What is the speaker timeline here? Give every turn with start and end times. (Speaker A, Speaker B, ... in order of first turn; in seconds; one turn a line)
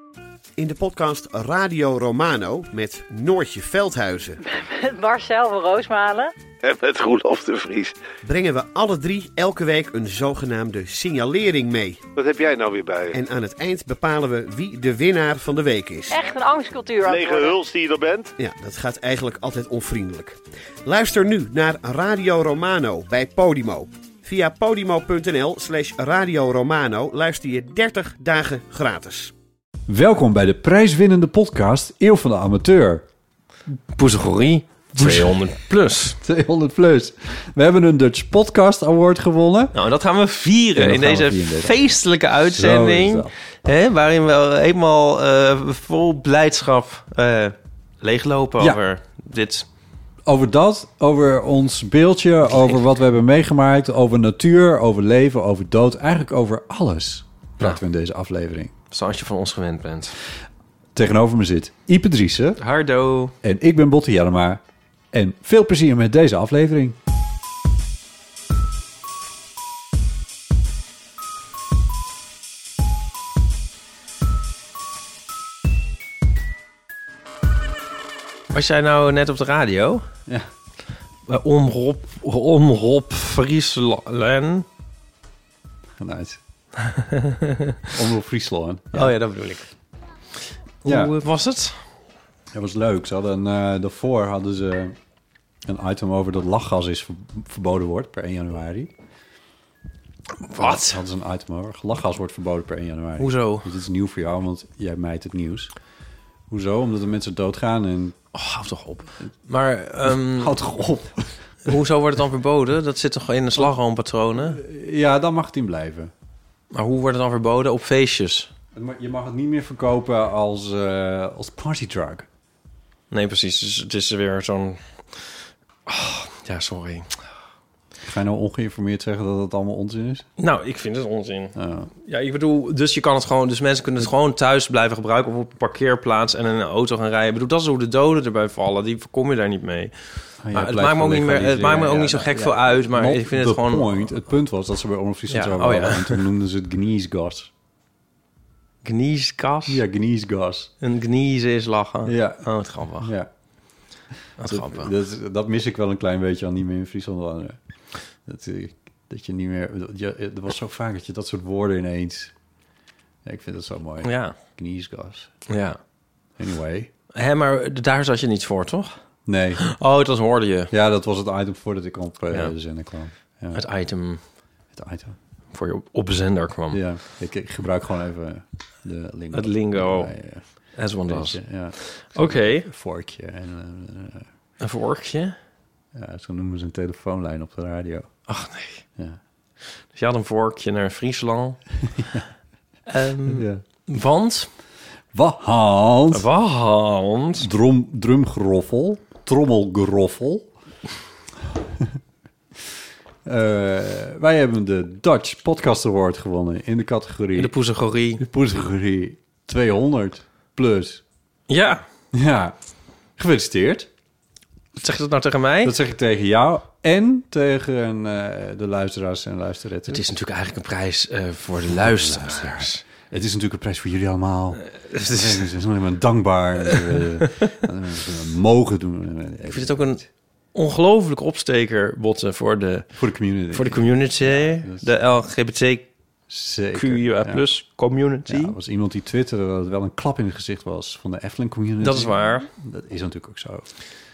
Speaker A: 0.6-4.4
Speaker B: 4.4-6.3
Speaker C: 6.6-8.0
Speaker A: 8.2-12.0
Speaker C: 12.2-13.2
Speaker A: 13.1-16.2
Speaker B: 16.1-17.6
Speaker C: 17.0-18.3
Speaker A: 18.4-29.3
Speaker D: 29.9-33.1
Speaker E: 33.9-36.2
Speaker D: 35.0-35.4
Speaker D: 36.2-39.8
Speaker E: 39.8-49.7
Speaker D: 40.8-41.8
Speaker D: 42.5-43.3
Speaker D: 50.3-58.7
Speaker E: 58.9-60.2
Speaker D: 61.0-62.6
Speaker E: 62.6-63.3
Speaker D: 63.4-64.6
Speaker D: 65.1-67.0
Speaker E: 78.5-80.0
Speaker E: 81.3-84.7
Speaker D: 86.0-86.4
Speaker E: 86.8-87.9
Speaker D: 87.9-89.1
Speaker E: 88.9-89.7
Speaker E: 90.8-91.8
Speaker D: 90.8-91.1
Speaker D: 92.5-95.0
Speaker D: 95.7-98.9
Speaker E: 100.4-101.0
Speaker D: 100.6-105.7
Speaker E: 103.2-103.7
Speaker D: 106.5-108.2
Speaker E: 108.3-110.6
Speaker D: 110.1-111.3
Speaker E: 111.7-114.6
Speaker D: 114.4-116.1
Speaker E: 116.7-118.5
Speaker D: 118.7-122.3
Speaker E: 123.1-124.8
Speaker E: 125.9-127.2
Speaker D: 128.0-130.3
Speaker E: 130.4-139.9
Speaker D: 131.6-131.9
Speaker D: 140.4-147.5
Speaker E: 140.5-144.1
Speaker E: 145.3-146.2
Speaker E: 148.8-149.8
Speaker D: 149.7-150.7
Speaker E: 150.8-153.1
Speaker D: 152.1-152.4
Speaker D: 153.0-153.3
Speaker E: 154.4-154.9
Speaker D: 154.4-157.6
Speaker D: 158.2-162.3
Speaker D: 163.2-165.3
Speaker E: 164.0-164.3
Speaker E: 165.5-165.8
Speaker D: 166.4-166.9
Speaker E: 167.1-168.9
Speaker D: 169.3-169.7
Speaker E: 169.6-170.7
Speaker D: 170.7-173.6
Speaker E: 173.5-174.2
Speaker D: 174.7-175.2
Speaker E: 175.5-176.8
Speaker D: 176.7-180.5
Speaker E: 179.3-180.1
Speaker E: 180.8-182.7
Speaker D: 181.1-184.3
Speaker E: 184.6-185.4
Speaker D: 185.9-188.1
Speaker E: 188.3-188.8
Speaker E: 189.9-191.6
Speaker D: 191.9-192.2
Speaker E: 192.9-194.5
Speaker D: 193.2-193.6
Speaker D: 195.1-196.2
Speaker E: 196.1-197.5
Speaker D: 197.4-200.5
Speaker D: 203.2-207.5
Speaker E: 207.3-208.2
Speaker D: 208.2-211.0
Speaker E: 211.5-211.8
Speaker D: 212.1-212.6
Speaker D: 213.2-213.9
Speaker E: 214.8-215.8
Speaker D: 215.6-220.1
Speaker E: 219.9-222.8
Speaker D: 221.7-230.0
Speaker E: 224.9-225.4
Speaker E: 227.2-227.5
Speaker E: 229.5-230.0
Speaker E: 230.5-232.9
Speaker D: 232.9-234.9
Speaker E: 233.5-235.9
Speaker D: 236.3-237.4
Speaker E: 236.8-238.6
Speaker D: 238.3-243.7
Speaker E: 241.8-242.5